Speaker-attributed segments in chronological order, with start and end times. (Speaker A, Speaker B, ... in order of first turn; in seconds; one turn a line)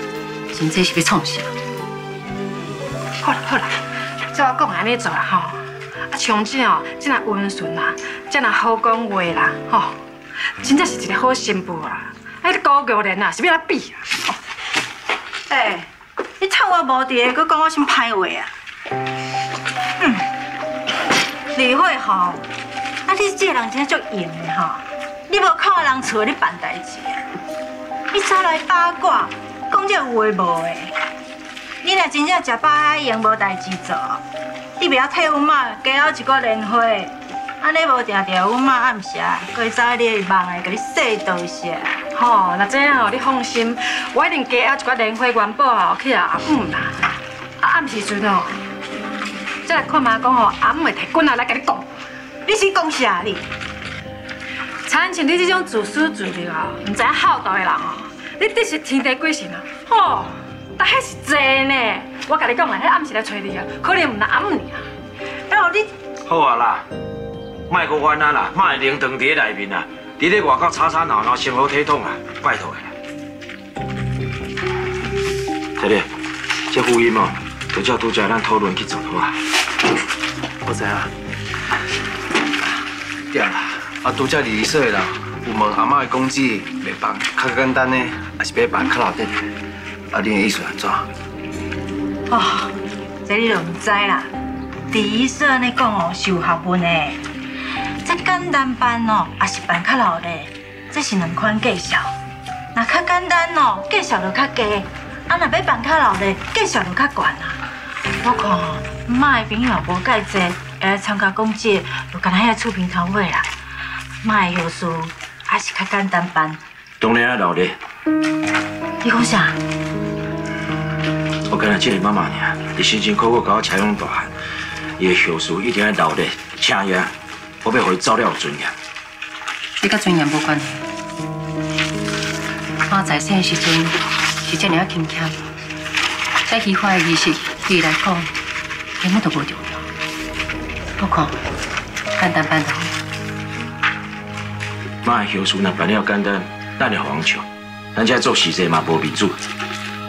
Speaker A: 0.5-1.5
Speaker B: 3.2-3.8
Speaker B: 4.3-5.6
Speaker B: 6.1-10.0
Speaker B: 10.6-14.3
Speaker C: 15.5-18.5
Speaker C: 20.0-20.3
Speaker C: 21.5-22.4
Speaker C: 23.1-27.2
Speaker C: 28.1-30.9
Speaker C: 31.8-34.2
Speaker C: 34.8-42.0
Speaker B: 42.1-47.1
Speaker B: 47.6-48.6
Speaker B: 49.6-51.9
Speaker C: 52.5-53.5
Speaker B: 54.9-64.8
Speaker C: 65.5-65.9
Speaker D: 66.2-66.9
Speaker D: 67.7-72.9
Speaker D: 75.8-76.1
Speaker D: 76.7-79.4
Speaker E: 80.6-81.1
Speaker E: 83.3-89.5
Speaker E: 90.1-91.1
Speaker C: 92.3-94.3
Speaker C: 94.9-97.2
Speaker C: 98.0-102.1
Speaker C: 102.7-107.6
Speaker C: 108.2-113.5
Speaker C: 114.2-116.6
Speaker D: 117.0-117.8
Speaker C: 119.0-119.6
Speaker D: 121.5-124.3
Speaker D: 125.0-128.8
Speaker A: 129.8-130.8
Speaker A: 132.9-135.4
Speaker A: 136.5-138.3
Speaker A: 139.0-139.9
Speaker A: 141.0-141.3
Speaker A: 142.2-142.9
Speaker D: 145.0-149.4